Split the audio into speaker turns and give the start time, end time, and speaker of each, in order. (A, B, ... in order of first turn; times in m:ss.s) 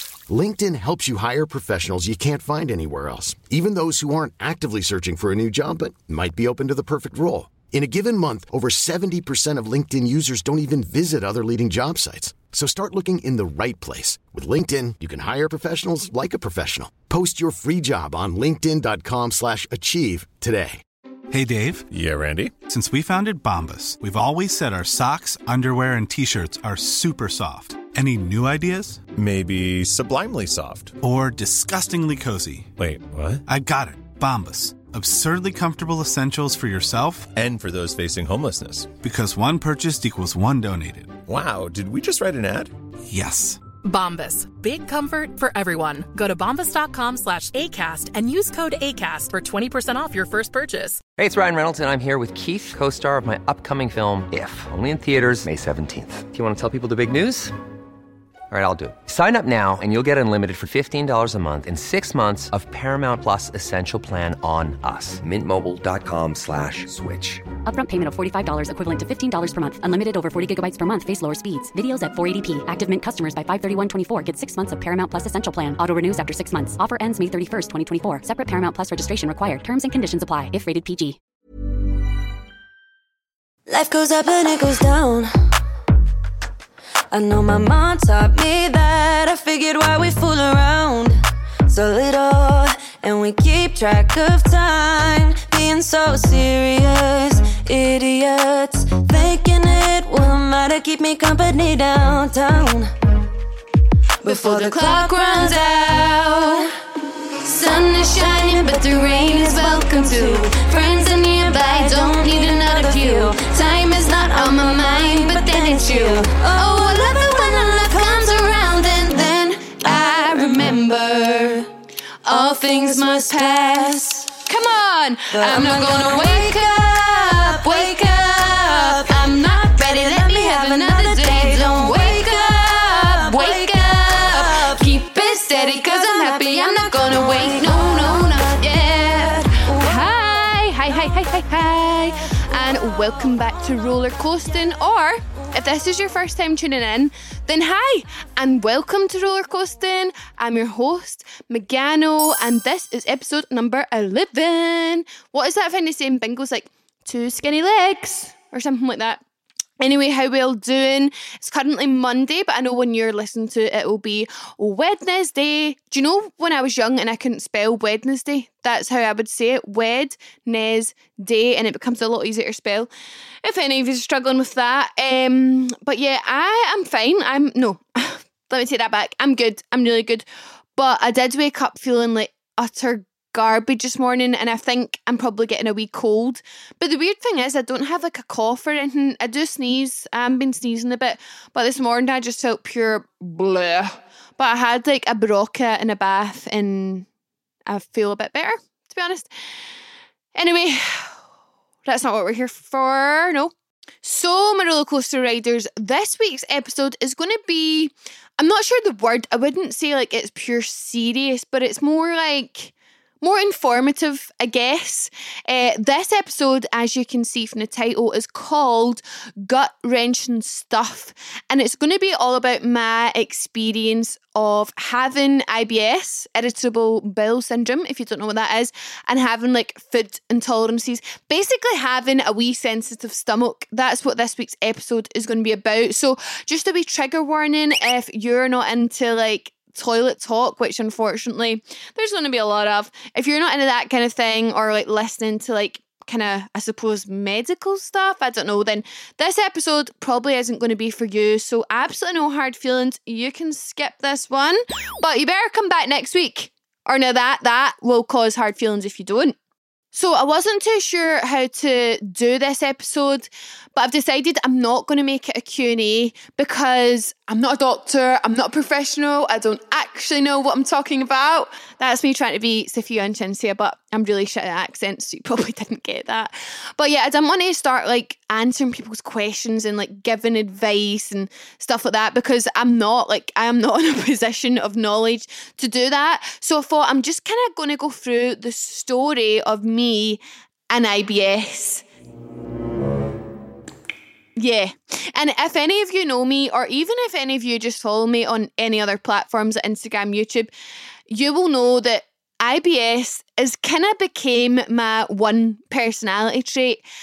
0:00.3-0:20.8 A
0:21.3-0:21.9 B
0:21.9-0:22.6 C
0:22.7-0:29.0 B
0:29.1-0:31.0 C
0:31.0-0:32.7 B
0:32.8-0:33.4 C
0:33.5-0:37.3 B
0:37.3-0:38.9 C
0:39.0-0:41.2 B
0:41.3-0:42.7 C
0:43.1-0:43.6 B
0:43.8-0:51.0 D
0:51.2-0:57.5 E
0:58.5-1:07.4 E
1:07.7-1:21.2 F
1:23.7-1:25.3 G
1:27.1-1:42.9 G
1:44.2-1:45.9 G
1:44.2-1:46.7 H
1:47.4-2:01.6 H
1:47.5-1:59.2 G
1:59.8-2:01.6 G
2:02.2-2:39.2 H
2:02.3-2:04.3 G
2:05.3-2:20.4 G
2:22.7-2:23.2 G
2:39.8-2:52.9 H
2:53.4-3:00.2 H
3:00.8-3:17.1 H
3:17.7-3:19.3 H
3:20.4-3:21.2 H
3:21.8-4:19.3 H
4:19.9-4:51.8 H
4:54.4-5:00.5 H
5:01.1-5:06.8 H